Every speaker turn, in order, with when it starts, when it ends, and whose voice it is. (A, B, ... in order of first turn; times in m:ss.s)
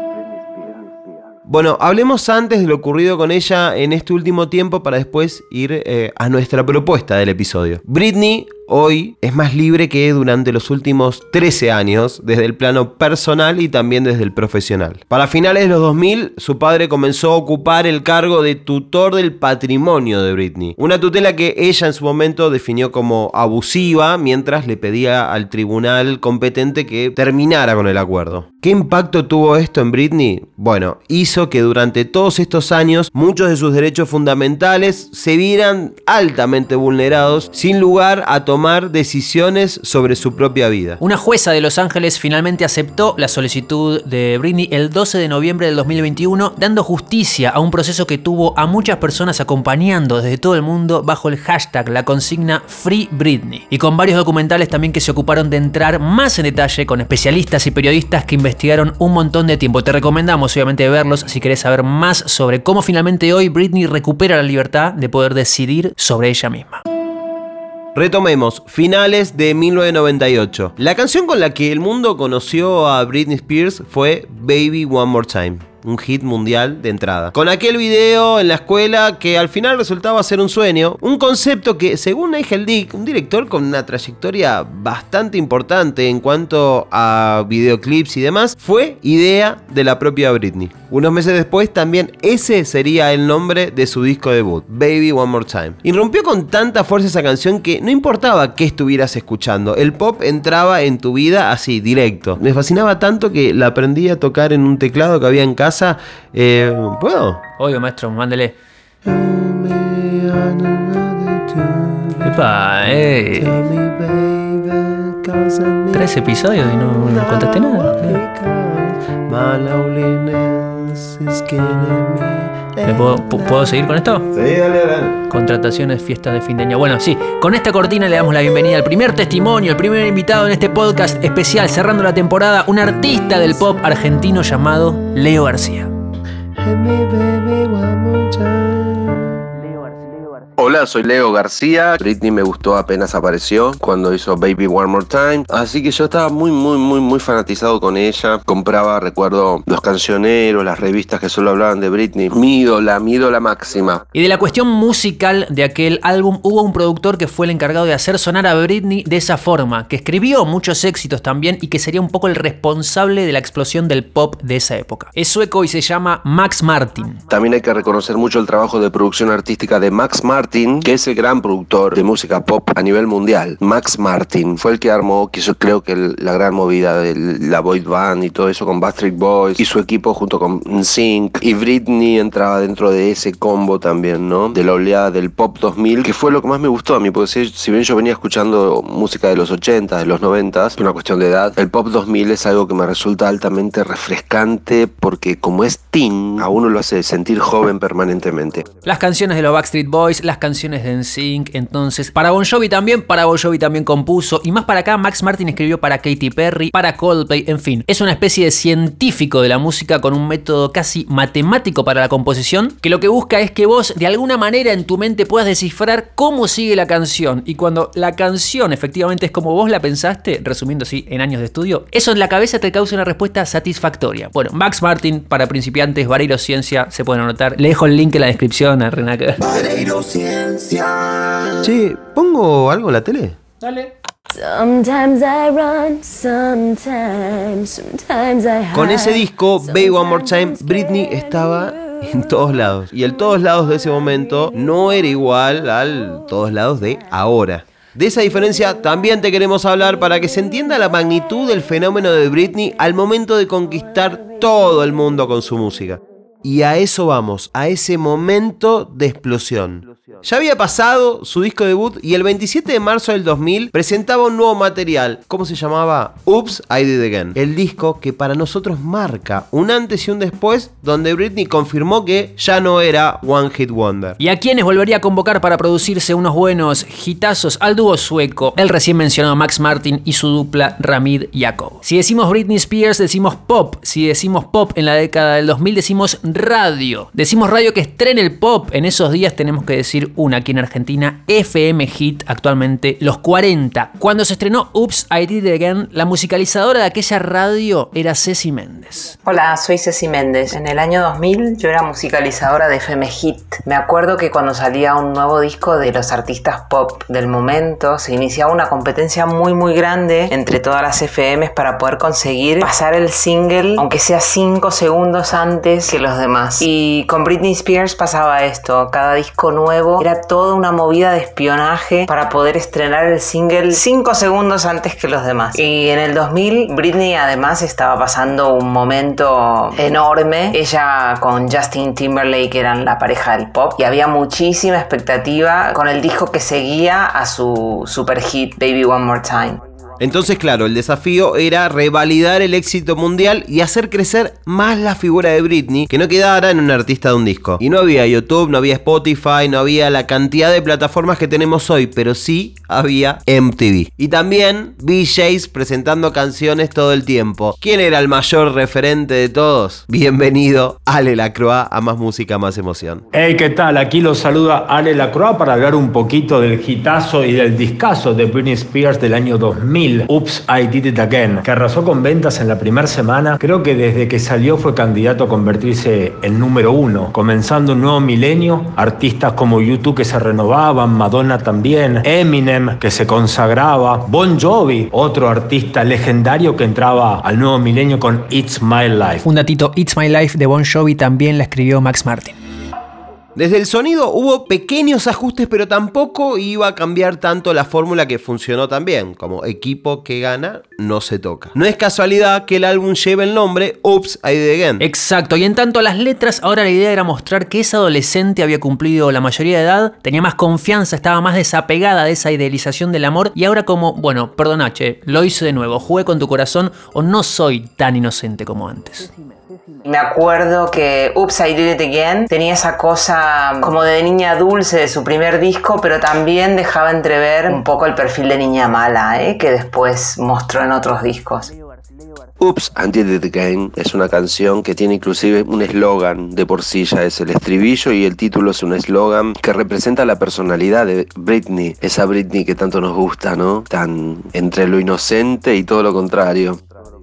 0:00.2-0:01.1 A
0:01.5-0:41.0 B
0:41.0-1:06.8 C
1:08.0-1:47.4 B
1:47.6-1:48.5 C
1:49.0-1:52.3 B
1:52.2-1:53.6 C
1:53.4-1:56.1 B
1:55.9-1:58.2 C
1:56.6-2:05.2 B
2:02.8-2:04.3 C
2:05.3-2:15.9 C
2:16.6-2:19.4 B
2:20.6-2:34.0 A
2:34.1-2:47.2 C
2:47.3-3:18.6 A
3:18.8-3:49.6 C
3:49.5-3:50.7 B
3:51.6-3:53.4 B
3:54.4-3:58.7 D
3:58.7-4:34.2 B
4:34.2-4:59.2 C
4:59.2-5:39.6 E
5:40.0-6:03.0 B
6:03.1-6:29.2 F
6:29.2-6:32.4 C
6:33.4-6:44.9 B
6:44.8-6:59.1 C
6:59.9-7:11.5 E
7:12.4-7:26.6 A